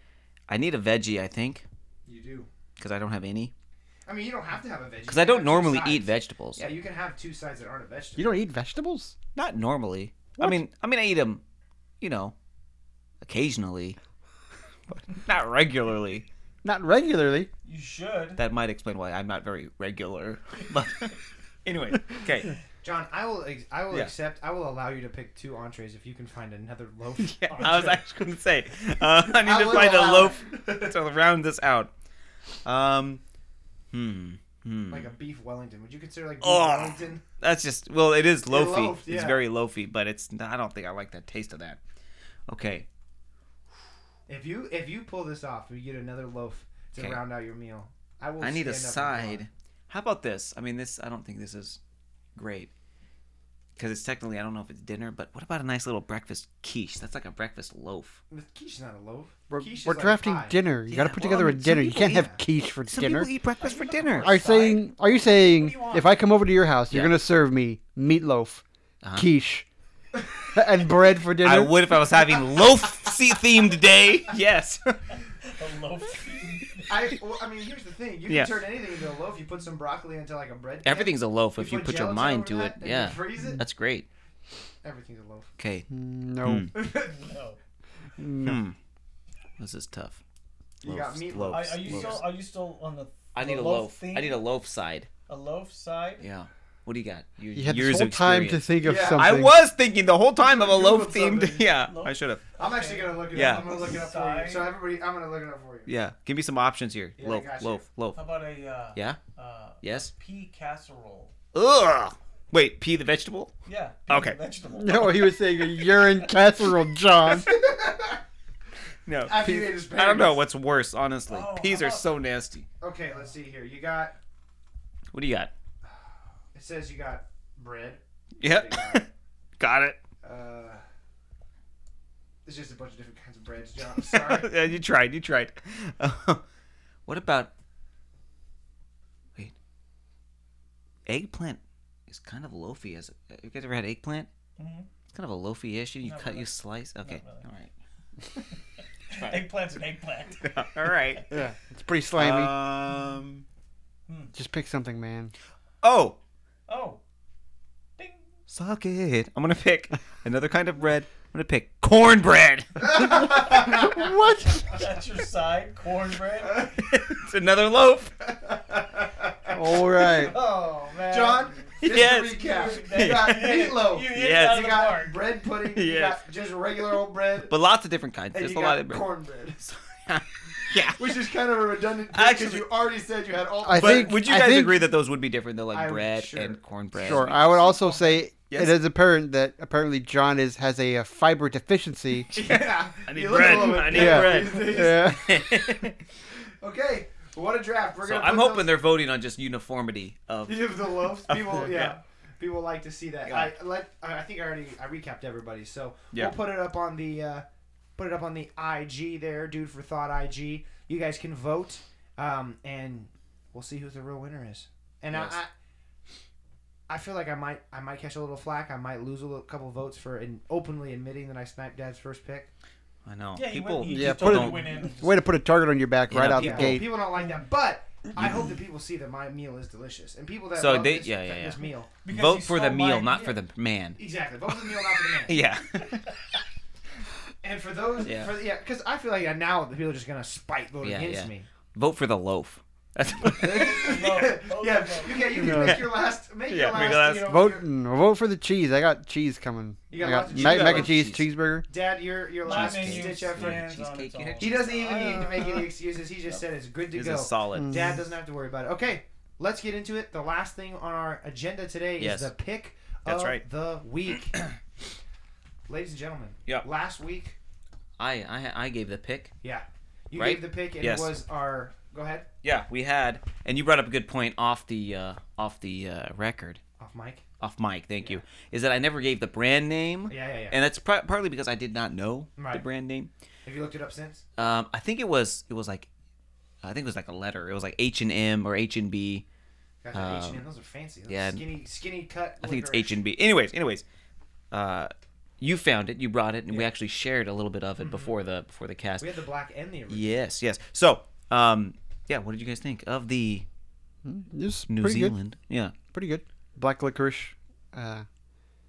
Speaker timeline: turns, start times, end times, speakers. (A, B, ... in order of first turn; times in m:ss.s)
0:00.5-0:01.6 A
0:02.1-0:02.5 B
0:02.8-0:03.5 A
0:04.1-0:08.3 B
0:05.1-0:06.7 A
0:08.2-0:09.2 C
0:09.3-0:11.4 A
0:12.0-0:12.4 A
0:13.2-0:14.0 A
0:14.9-0:16.3 A
0:16.6-0:17.5 C
0:17.6-0:18.4 D
0:18.4-0:22.6 A
0:22.8-0:28.0 B
0:27.2-0:31.9 A
0:29.3-0:31.0 B
0:32.6-0:33.2 A
0:33.9-0:35.1 A
0:34.9-0:37.2 B
0:36.4-0:41.8 A
0:38.5-0:39.4 B
0:42.5-0:42.9 A
0:44.3-0:49.4 B
0:48.4-0:51.8 A
0:52.4-0:52.7 A
0:53.8-0:58.2 A
0:58.3-1:02.4 B
0:59.5-1:03.3 C
1:00.9-1:02.2 A
1:02.9-1:04.4 A
1:03.6-1:06.1 D
1:04.2-1:08.6 C
1:06.9-1:07.2 A
1:09.0-1:09.3 A
1:09.2-1:09.6 C
1:10.5-1:11.8 C
1:11.4-1:15.2 A
1:12.1-1:13.1 B
1:15.4-1:16.9 D
1:16.9-1:23.6 B
1:18.3-1:18.6 A
1:20.8-1:24.1 A
1:24.8-1:25.5 B
1:25.6-1:25.9 A
1:25.9-1:26.7 C
1:26.4-1:26.7 A
1:26.7-1:27.3 B
1:27.0-1:27.6 D
1:28.2-1:28.6 C
1:28.4-1:28.8 A
1:29.6-1:30.2 A
1:30.8-1:32.3 B
1:30.8-1:32.3 A
1:31.5-1:34.4 D
1:33.4-1:35.1 A
1:35.3-1:36.2 D
1:36.2-1:42.4 A
1:37.6-1:39.6 C
1:38.8-1:39.3 B
1:40.4-1:41.7 B
1:41.9-1:44.7 D
1:42.6-1:45.9 B
1:43.3-1:43.7 A
1:45.9-1:48.2 A
1:47.2-1:47.8 B
1:48.1-1:51.3 D
1:49.8-1:50.1 A
1:51.5-1:53.5 A
1:53.7-1:56.0 D
1:54.1-1:54.4 A
1:54.7-1:57.5 C
1:57.4-1:58.2 B
1:59.1-2:02.7 A
1:59.2-2:00.4 B
2:01.3-2:02.1 D
2:02.8-2:04.2 B
2:05.1-2:05.5 A
2:06.5-2:09.1 B
2:08.4-2:09.1 A
2:09.6-2:10.0 A
2:10.2-2:10.8 B
2:12.5-2:14.5 B
2:14.0-2:16.4 A
2:17.1-2:17.5 A
2:21.1-2:24.3 A
2:24.6-2:24.9 D
2:25.1-2:27.7 A
2:26.0-2:26.5 D
2:27.0-2:27.5 D
2:29.1-2:31.2 D
2:29.1-2:29.5 A
2:30.4-2:31.3 A
2:31.3-2:32.5 C
2:32.2-2:33.4 A
2:34.1-2:34.3 D
2:34.3-2:35.3 C
2:35.8-2:36.2 A
2:36.7-2:37.0 D
2:38.5-2:43.2 A
2:42.9-2:44.0 B
2:43.2-2:44.7 C
2:44.6-2:46.7 D
2:46.8-2:48.2 A
2:48.3-2:49.6 B
2:49.5-2:50.4 C
2:50.3-2:55.2 D
2:51.1-2:57.5 B
2:51.8-2:53.5 A
2:54.1-2:54.7 A
2:55.6-2:56.2 A
2:57.5-2:59.1 A
2:58.3-2:59.6 B
2:59.6-3:01.3 A
3:01.0-3:04.2 B
3:02.1-3:02.7 A
3:03.6-3:04.9 C
3:03.7-3:07.6 A
3:05.7-3:08.0 B
3:07.0-3:12.3 C
3:08.5-3:08.8 A
3:12.3-3:15.2 B
3:12.3-3:16.0 A
3:13.7-3:15.8 C
3:16.6-3:18.7 B
3:18.0-3:22.0 A
3:20.5-3:27.4 B
3:23.3-3:23.5 A
3:28.0-3:35.5 B
3:35.1-3:35.4 A
3:36.9-3:42.5 B
3:43.0-3:44.8 A
3:43.3-3:45.3 D
3:43.9-3:46.9 C
3:46.1-3:46.9 A
3:46.2-3:51.9 B
3:50.6-3:54.0 A
3:52.0-3:53.4 D
3:54.0-3:55.4 B
3:55.3-3:56.1 A
3:57.4-4:01.5 B
3:58.0-3:58.3 A
4:00.8-4:04.0 A
4:03.3-4:07.7 B
4:03.4-4:05.5 D
4:05.4-4:07.4 A
4:05.4-4:05.9 C
4:06.9-4:11.7 C
4:09.9-4:11.0 B
4:10.3-4:11.3 A
4:11.7-4:13.6 B
4:12.4-4:15.6 A
4:12.4-4:15.7 D
4:14.4-4:24.3 B
4:16.9-4:17.9 A
4:17.5-4:18.0 C
4:22.0-4:22.3 A
4:23.0-4:23.4 A
4:25.7-4:27.4 B
4:28.0-4:29.3 A
4:29.4-4:32.3 B
4:30.1-4:31.1 A
4:32.4-4:36.6 A
4:36.8-4:37.2 B
4:37.4-4:43.1 A
4:40.1-4:40.6 B
4:42.4-4:42.6 B
4:43.4-4:44.2 B
4:44.4-4:45.9 A
4:46.6-4:49.2 A
4:49.8-4:53.0 B
4:49.9-4:50.4 A
4:51.1-4:51.4 A
4:52.4-4:53.8 A
4:54.5-4:59.1 A
4:57.8-4:58.2 B
4:59.0-5:00.2 B
4:59.9-5:03.4 A
5:04.0-5:05.2 C
5:04.7-5:05.8 A
5:05.9-5:08.0 C